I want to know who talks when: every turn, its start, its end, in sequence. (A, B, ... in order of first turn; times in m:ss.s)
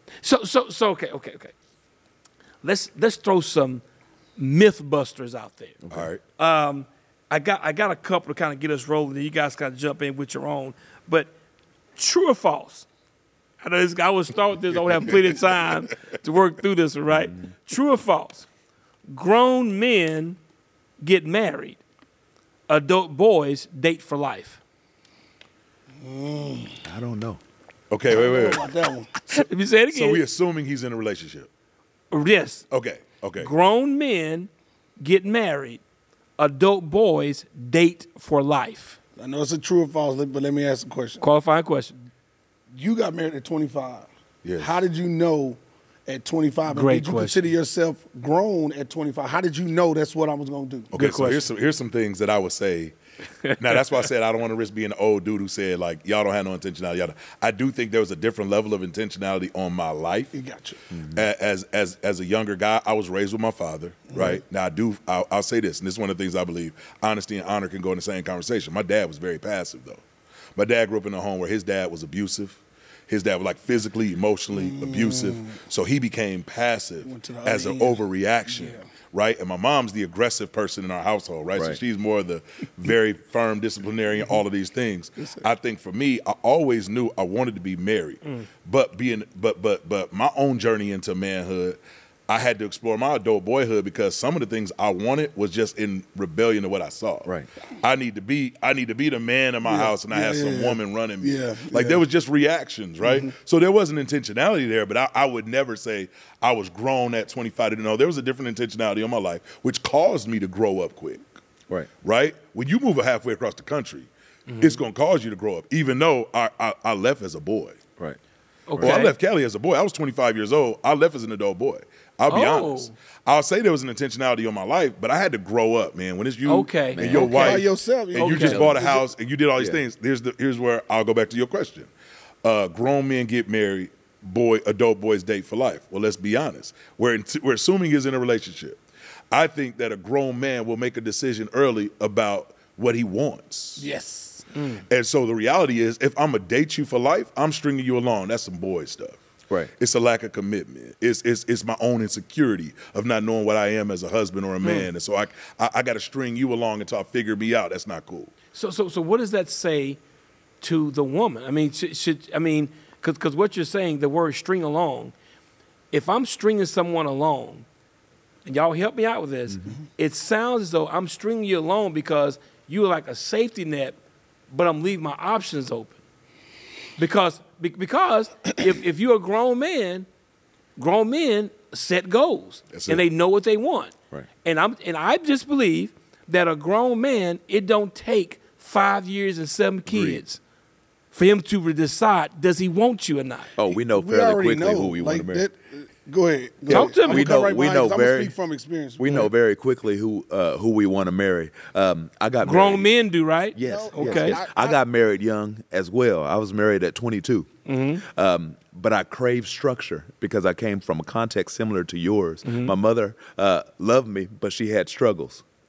0:00.2-0:01.5 A
0:02.6-0:03.8 A
0:04.4-0:05.8 A
0:05.8-0:06.1 B
0:05.9-0:06.2 C
0:06.4-0:11.3 A
0:12.0-0:12.9 A
0:13.6-0:18.5 A
0:19.1-0:20.4 A
0:21.0-0:21.8 A
0:22.7-0:24.6 A
0:26.0-0:26.8 D
0:26.8-0:27.4 B
0:27.9-0:28.7 C
0:28.1-0:29.1 D
0:29.3-0:30.2 A
0:29.9-0:31.5 C
0:32.1-0:32.6 A
0:32.7-0:33.5 C
0:33.4-0:35.8 A
0:36.4-0:39.0 A
0:39.2-0:41.2 D
0:41.2-0:42.0 A
0:42.7-0:44.1 D
0:44.4-0:44.8 C
0:44.6-0:50.9 D
0:46.7-0:47.4 A
0:50.9-0:52.9 C
0:50.9-0:51.4 A
0:53.4-0:53.8 A
0:53.5-1:00.3 C
1:00.3-1:00.8 D
1:01.0-1:10.0 C
1:04.1-1:04.4 D
1:10.6-1:37.3 C
1:14.5-1:15.6 D
1:17.0-1:18.8 D
1:25.2-1:25.5 D
1:37.8-1:51.2 C
1:39.6-1:42.0 D
1:43.0-1:43.3 D
1:52.0-1:54.1 C
1:54.5-1:54.8 A
1:54.6-1:57.8 C
1:58.7-1:59.1 A
1:58.8-1:59.1 B
1:58.8-2:11.9 C
2:02.3-2:02.9 A
2:06.4-2:07.6 A
2:06.9-2:07.4 B
2:07.1-2:09.1 D
2:08.2-2:08.6 A
2:08.4-2:08.9 B
2:12.4-2:18.8 C
2:19.3-2:23.8 C
2:23.8-2:24.5 D
2:24.5-2:24.8 A
2:24.9-2:29.2 C
2:29.8-2:38.3 C
2:34.6-2:34.9 A
2:38.5-2:40.0 A
2:40.6-2:45.1 A
2:45.9-2:47.6 A
2:48.4-2:54.0 A
2:54.5-2:56.0 A
2:57.0-3:00.1 A
3:00.8-3:10.4 A
3:02.7-3:03.0 C
3:09.8-3:10.2 B
3:11.1-3:13.5 A
3:13.6-3:15.5 B
3:13.7-3:19.3 D
3:16.6-3:18.3 B
3:16.7-3:17.3 A
3:19.0-3:22.9 B
3:22.4-3:24.4 A
3:23.5-3:35.4 B
3:23.6-3:24.8 D
3:27.6-3:28.0 A
3:32.4-3:32.7 A